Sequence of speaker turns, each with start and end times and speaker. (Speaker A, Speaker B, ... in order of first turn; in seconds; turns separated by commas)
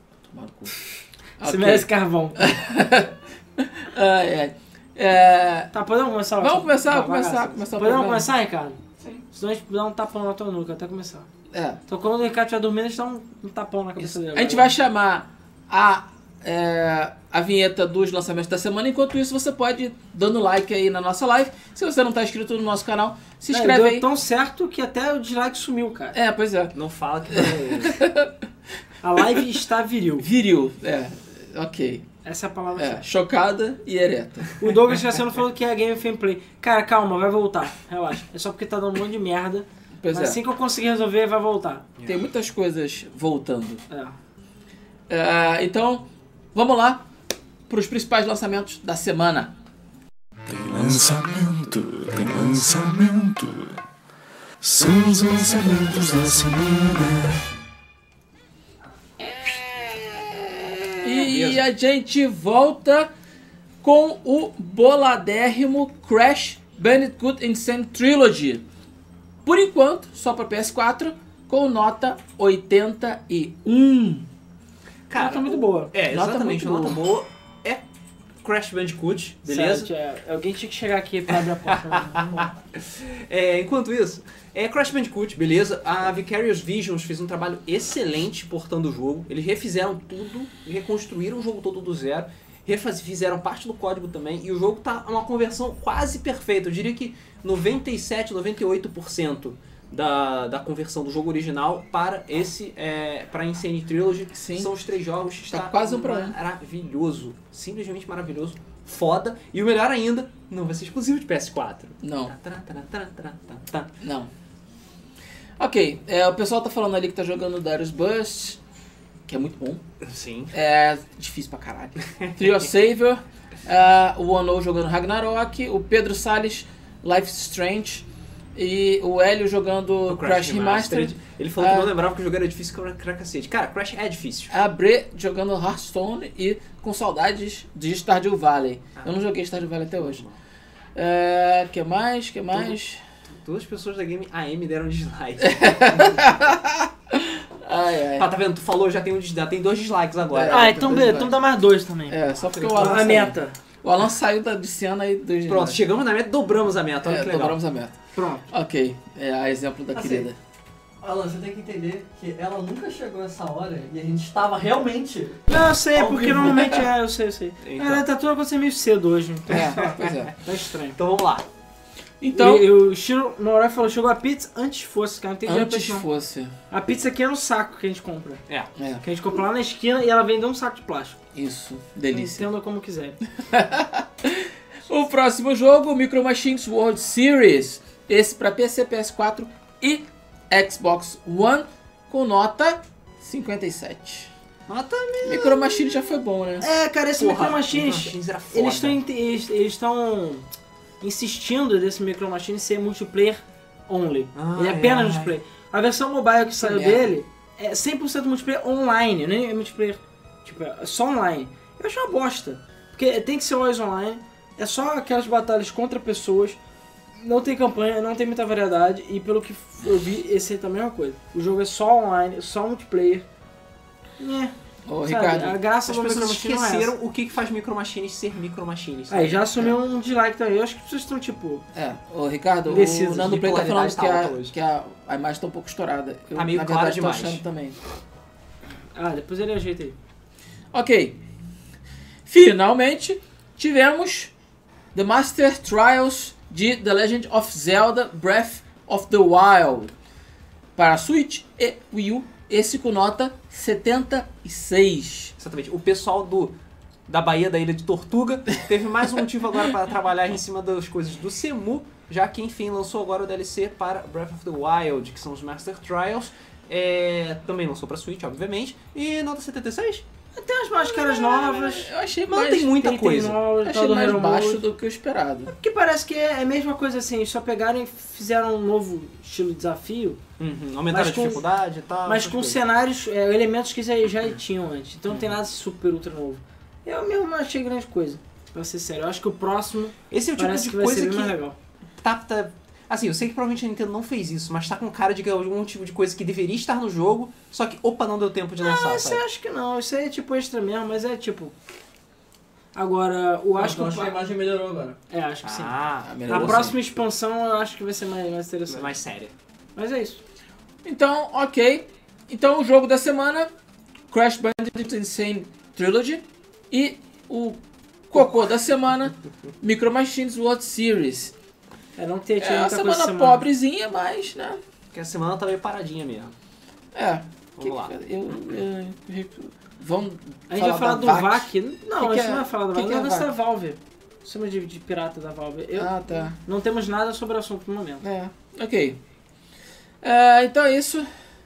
Speaker A: 0.2-0.8, Speaker A: 1.4-5.7, Speaker B: 1.4-2.5, Speaker B: 5.7-8.8, Speaker A: 6.4-8.3, Speaker B: 9.3-11.3, Speaker A: 11.5-11.8, Speaker B: 11.9-14.7, Speaker A: 14.0-24.0, Speaker B: 23.5-26.1, Speaker A: 26.1-26.7, Speaker C: 26.7-28.0, Speaker A: 27.3-28.3, Speaker B: 29.0-30.3, Speaker A: 30.2-32.0, Speaker B: 32.2-33.0, Speaker A: 32.8-34.6, Speaker B: 34.6-41.9, Speaker A: 40.0-40.4, Speaker C: 42.0-42.2, Speaker A: 42.0-43.8, Speaker B: 43.9-44.1, Speaker A: 45.1-47.0, Speaker A: 47.7-49.5, Speaker D: 50.5-53.8, Speaker D: 54.6-57.4, Speaker A: 59.5-63.1, Speaker C: 61.1-61.6, Speaker A: 63.8-68.6, Speaker A: 69.4-74.3, Speaker C: 75.1-77.8, Speaker B: 75.1-75.9, Speaker A: 76.1-77.0, Speaker C: 78.4-79.9, Speaker B: 79.5-82.5, Speaker C: 81.3-113.9, Speaker A: 104.3-104.7, Speaker A: 105.5-106.3, Speaker A: 112.0-112.3, Speaker A: 114.0-114.3, Speaker A: 115.6-118.6, Speaker A: 119.3-119.8, Speaker C: 120.0-120.5, Speaker A: 120.5-128.0, Speaker C: 122.2-122.5, Speaker A: 128.6-131.9, Speaker C: 130.1-134.5, Speaker A: 134.5-140.2, Speaker C: 139.9-140.4, Speaker A: 140.9-143.0, Speaker C: 142.5-146.5, Speaker A: 145.4-148.3, Speaker C: 148.2-151.2, Speaker A: 150.2-151.4, Speaker B: 150.5-152.2, Speaker A: 152.1-155.8, Speaker C: 152.3-153.2, Speaker B: 152.7-153.6, Speaker C: 155.4-157.6, Speaker A: 157.0-157.9, Speaker B: 158.1-158.5, Speaker A: 158.5-160.3, Speaker E: 159.9-160.3, Speaker E: 161.0-166.5, Speaker B: 165.5-171.0, Speaker C: 167.6-168.0, Speaker A: 169.5-170.3, Speaker C: 169.5-170.3, Speaker C: 170.9-171.4, Speaker A: 172.2-172.7, Speaker B: 172.3-176.1, Speaker A: 175.4-176.5, Speaker B: 176.7-178.4, Speaker A: 178.8-179.0, Speaker B: 179.0-181.2, Speaker A: 181.3-182.5, Speaker B: 182.1-183.2, Speaker A: 183.4-194.3, Speaker C: 194.7-196.0, Speaker A: 195.2-196.7, Speaker B: 196.6-200.4, Speaker C: 197.2-199.0, Speaker B: 201.0-216.6, Speaker C: 204.3-205.3, Speaker A: 206.6-207.1, Speaker B: 217.2-223.2, Speaker B: 224.2-226.9, Speaker A: 224.9-225.6, Speaker C: 225.8-229.6, Speaker B: 229.1-231.6, Speaker A: 231.7-237.8, Speaker B: 232.7-233.3, Speaker C: 233.0-234.5, Speaker C: 236.3-237.4, Speaker B: 238.9-239.9, Speaker A: 240.7-241.2, Speaker A: 242.2-244.3, Speaker A: 244.9-249.9, Speaker A: 250.8-255.3, Speaker C: 255.4-256.5, Speaker C: 257.1-270.0, Speaker B: 270.3-271.9, Speaker A: 270.8-272.7, Speaker C: 272.3-273.4, Speaker B: 272.8-274.6, Speaker A: 273.6-275.5, Speaker B: 275.4-280.2, Speaker C: 280.4-282.6, Speaker B: 280.9-281.4, Speaker B: 282.1-291.6, Speaker C: 290.1-291.3, Speaker C: 292.0-299.2, Speaker B: 298.6-301.5, Speaker B: 302.7-304.2, Speaker E: 303.6-305.0, Speaker B: 305.1-305.7, Speaker C: 305.4-306.7, Speaker A: 306.0-306.8, Speaker B: 306.3-308.9, Speaker C: 308.7-309.3, Speaker B: 309.8-310.2, Speaker A: 310.8-313.5, Speaker A: 314.1-321.3, Speaker B: 321.9-323.4, Speaker A: 322.4-324.6, Speaker C: 324.9-326.3, Speaker A: 326.9-333.3, Speaker C: 327.6-327.9, Speaker B: 330.5-338.0, Speaker A: 335.8-336.4, Speaker A: 338.0-339.0, Speaker A: 340.0-341.1